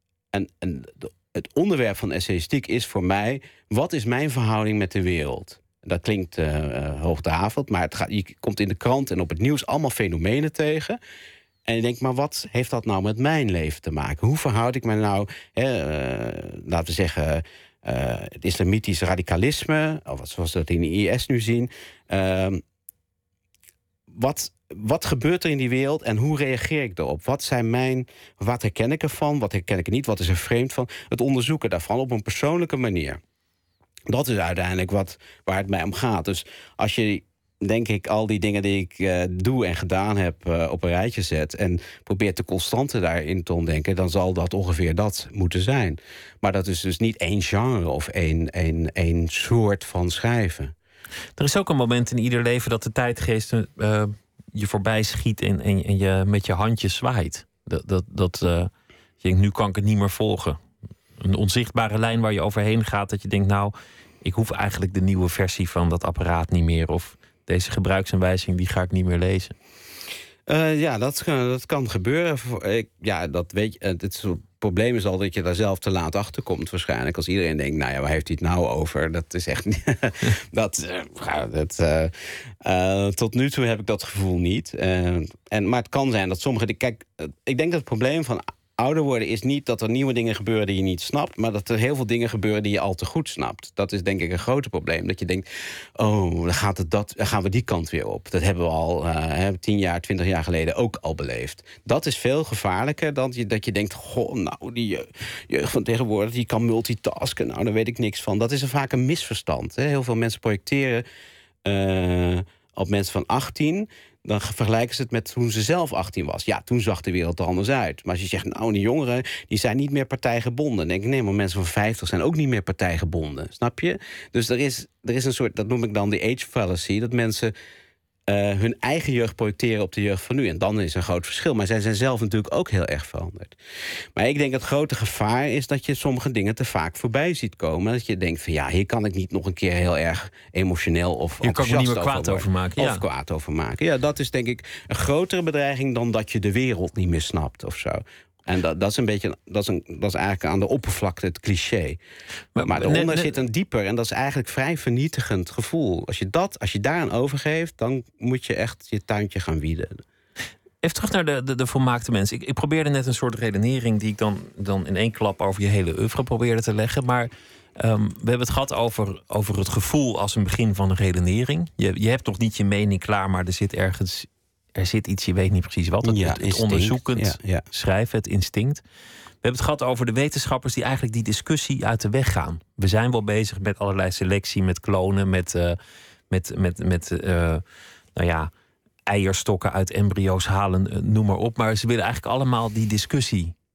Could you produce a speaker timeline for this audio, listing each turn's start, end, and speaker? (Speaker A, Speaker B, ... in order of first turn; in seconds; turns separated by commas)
Speaker A: 0.3-11.0, Speaker A: 11.7-22.6, Speaker A: 24.1-33.2, Speaker A: 34.1-50.7, Speaker B: 51.4-58.7, Speaker B: 59.2-60.6, Speaker B: 61.2-69.5, Speaker A: 70.5-95.5, Speaker A: 96.0-111.0, Speaker A: 111.7-127.5, Speaker A: 128.3-133.6, Speaker A: 134.2-152.0, Speaker B: 141.4-143.0, Speaker B: 152.6-153.3, Speaker A: 152.6-160.0, Speaker B: 160.8-178.8, Speaker A: 176.1-177.6, Speaker B: 179.4-185.8, Speaker B: 186.3-187.6, Speaker B: 188.2-188.5, Speaker B: 189.1-193.6